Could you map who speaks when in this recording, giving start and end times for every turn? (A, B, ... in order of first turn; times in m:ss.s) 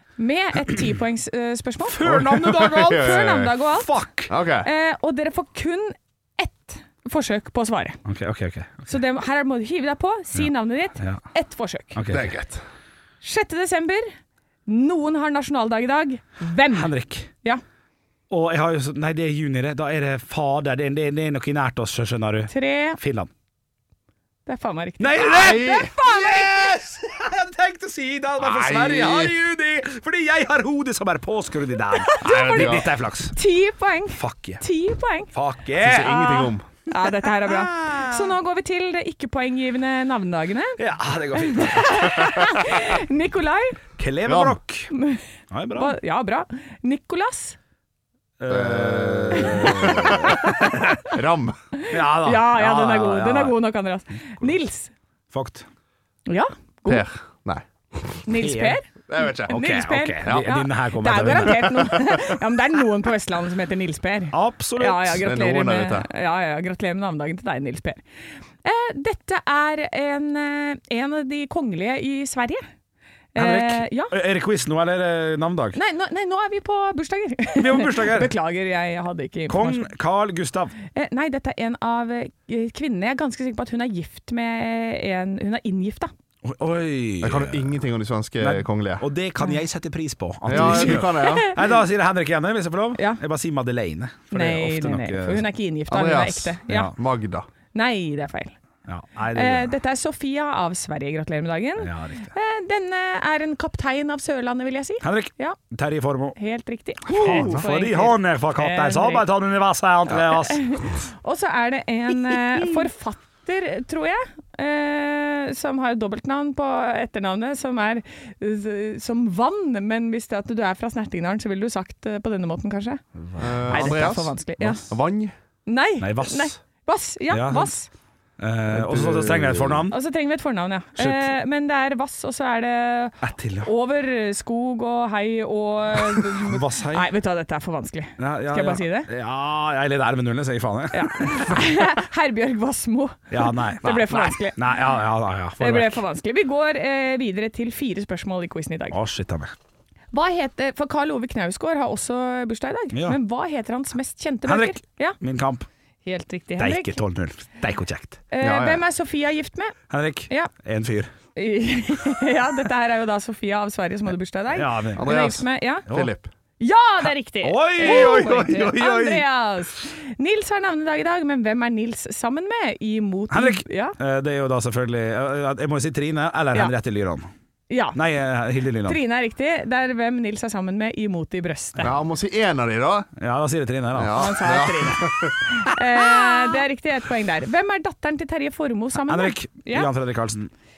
0:00.2-0:03.9 A
0:01.8-0:04.3 B
0:02.1-0:03.5 C
0:04.3-0:04.7 C
0:04.6-0:08.0 A
0:08.1-0:09.0 B
0:08.9-0:12.0 A
0:10.4-0:11.2 B
0:11.9-0:12.3 B
0:12.1-0:12.6 C
0:13.2-0:14.1 A
0:14.7-0:16.9 A
0:16.7-0:17.3 B
0:18.3-0:23.3 B
0:22.5-0:23.0 A
0:24.5-0:26.7 A
0:25.0-0:33.4 B
0:25.2-0:25.9 C
0:28.4-0:29.3 C
0:32.0-0:35.3 A
0:32.2-0:32.9 C
0:34.1-0:34.6 B
0:35.3-0:36.5 B
0:35.8-0:36.6 C
0:36.1-0:40.8 A
0:37.0-0:38.4 B
0:40.8-0:42.8 B
0:41.3-0:43.8 A
0:44.0-0:44.9 B
0:44.3-0:44.6 C
0:44.9-0:45.2 A
0:45.5-0:46.0 B
0:45.8-0:47.6 A
0:48.4-0:51.0 B
0:48.5-0:51.6 C
0:49.4-0:50.6 A
0:51.8-0:54.9 A
0:51.9-0:53.6 B
0:55.3-0:55.7 B
0:56.3-0:57.1 A
0:56.9-0:58.2 C
0:58.3-1:08.0 A
0:58.3-0:58.8 B
0:59.1-0:59.6 C
0:59.5-1:01.8 B
1:01.3-1:02.3 C
1:04.3-1:05.3 B
1:05.2-1:06.1 C
1:08.6-1:12.6 A
1:13.4-1:14.2 A
1:13.4-1:15.8 B
1:15.8-1:19.9 A
1:17.6-1:18.3 B
1:19.5-1:20.8 B
1:20.9-1:26.1 A
1:26.4-1:27.7 B
1:27.2-1:29.0 C
1:28.4-1:35.5 B
1:30.5-1:31.6 C
1:30.5-1:31.7 A
1:33.0-1:33.2 A
1:34.3-1:36.9 A
1:35.9-1:37.5 C
1:36.7-1:37.0 B
1:37.7-1:38.6 A
1:38.9-1:39.7 B
1:39.3-1:45.6 A
1:41.8-1:42.3 B
1:45.0-1:46.4 B
1:46.4-1:49.3 A
1:47.1-1:50.9 B
1:47.1-1:47.6 C
1:50.2-2:03.0 A
2:03.3-2:04.1 B
2:03.4-2:05.3 C
2:03.7-2:04.8 A
2:05.7-2:07.9 A
2:06.0-2:06.6 B
2:07.3-2:07.7 B
2:08.4-2:10.0 B
2:08.7-2:09.8 C
2:09.9-2:19.1 A
2:11.0-2:11.3 B
2:13.2-2:13.7 B
2:16.0-2:17.1 B
2:18.2-2:21.8 B
2:20.9-2:24.7 A
2:23.3-2:26.0 B
2:25.6-2:29.0 A
2:28.9-2:29.6 B
2:30.1-2:35.2 A
2:32.9-2:33.2 B
2:34.4-2:35.7 B
2:36.0-2:37.0 A
2:36.6-2:38.2 B
2:38.3-2:39.8 A
2:38.4-2:38.8 C
2:39.9-2:41.1 B
2:41.4-2:45.9 A
2:44.5-2:45.0 B
2:45.0-2:46.3 C
2:46.6-2:54.0 A
2:47.4-2:49.2 B
2:53.3-2:57.3 B
2:57.7-2:58.0 A
2:57.9-2:59.0 B
2:58.8-3:01.9 A
3:01.8-3:03.1 C
3:03.2-3:04.4 B
3:04.0-3:05.4 C
3:04.1-3:09.9 A
3:09.0-3:10.5 B